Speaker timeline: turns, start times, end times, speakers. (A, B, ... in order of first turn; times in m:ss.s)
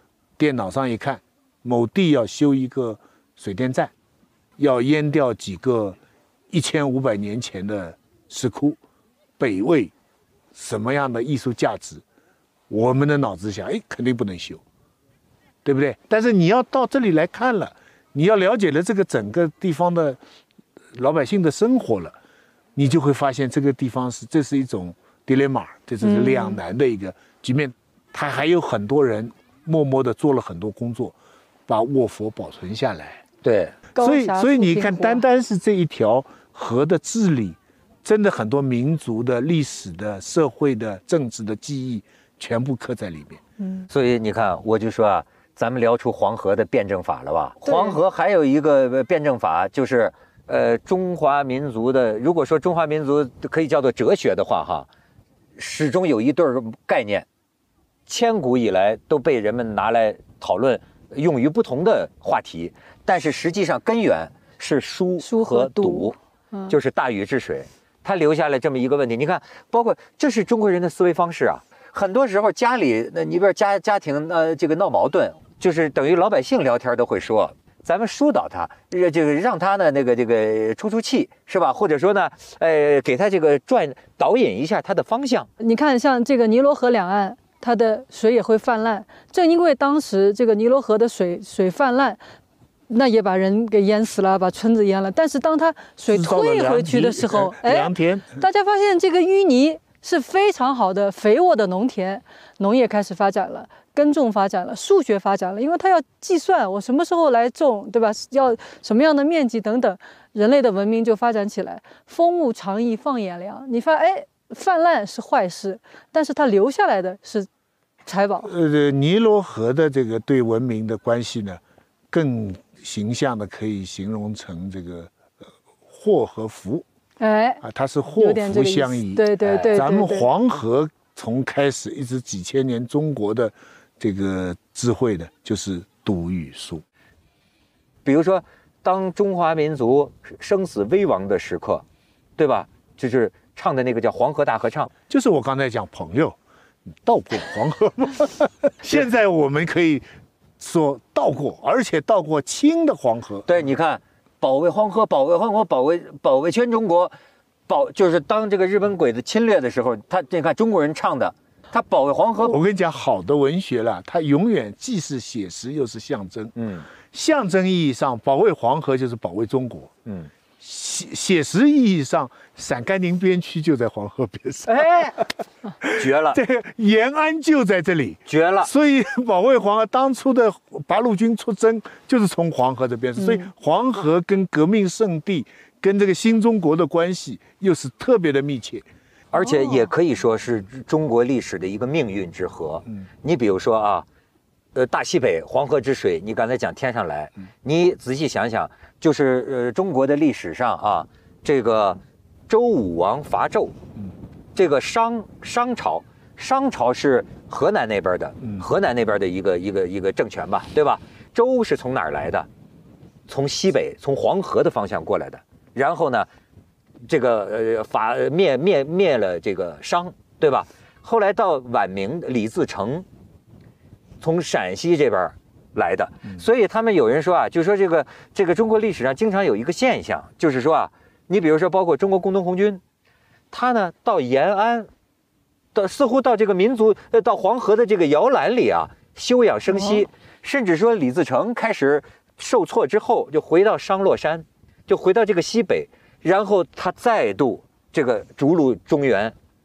0:00.4-0:03.9 A
0:04.6-0:06.0 A
0:06.5-0:08.8 A
0:09.4-0:09.9 A
0:10.5-0:12.0 A
0:12.7-0:14.6 A
0:15.6-0:20.2 A
0:20.9-0:22.2 A
0:22.8-0:31.2 A
0:26.0-0:26.6 B
0:31.7-0:33.2 A
0:33.4-0:33.8 C
0:34.0-0:35.2 B
0:34.0-0:43.4 A
0:43.6-0:43.9 B
0:43.9-0:54.9 C
0:47.6-0:48.0 B
0:55.6-0:57.3 C
0:58.1-1:06.2 C
1:05.2-1:06.8 B
1:06.7-1:25.5 C
1:25.6-1:32.2 B
1:32.9-1:57.5 B
1:36.1-1:38.4 A
1:58.1-1:58.5 B
1:58.4-2:01.6 A
2:02.1-2:05.1 A
2:05.9-2:06.8 A
2:07.2-2:10.3 B
2:07.6-2:16.8 A
2:09.4-2:09.8 C
2:18.0-2:21.8 C
2:22.4-2:24.9 C
2:25.1-2:30.1 A
2:30.6-2:33.5 A
2:33.5-2:37.1 C
2:37.7-2:42.6 C
2:42.4-2:49.9 A
2:46.6-2:46.9 C
2:50.6-2:55.1 A
2:54.7-2:55.2 C
2:55.8-3:08.9 A
2:55.8-2:56.4 C
2:58.3-2:58.7 C
3:03.2-3:03.5 B
3:09.3-3:14.1 C
3:09.4-3:09.9 B
3:14.8-3:23.8 C
3:24.6-3:32.5 C
3:28.4-3:28.7 A
3:33.3-3:36.3 C
3:37.0-3:43.1 C
3:44.2-3:52.8 C
3:53.5-3:54.9 C
3:55.7-4:09.4 C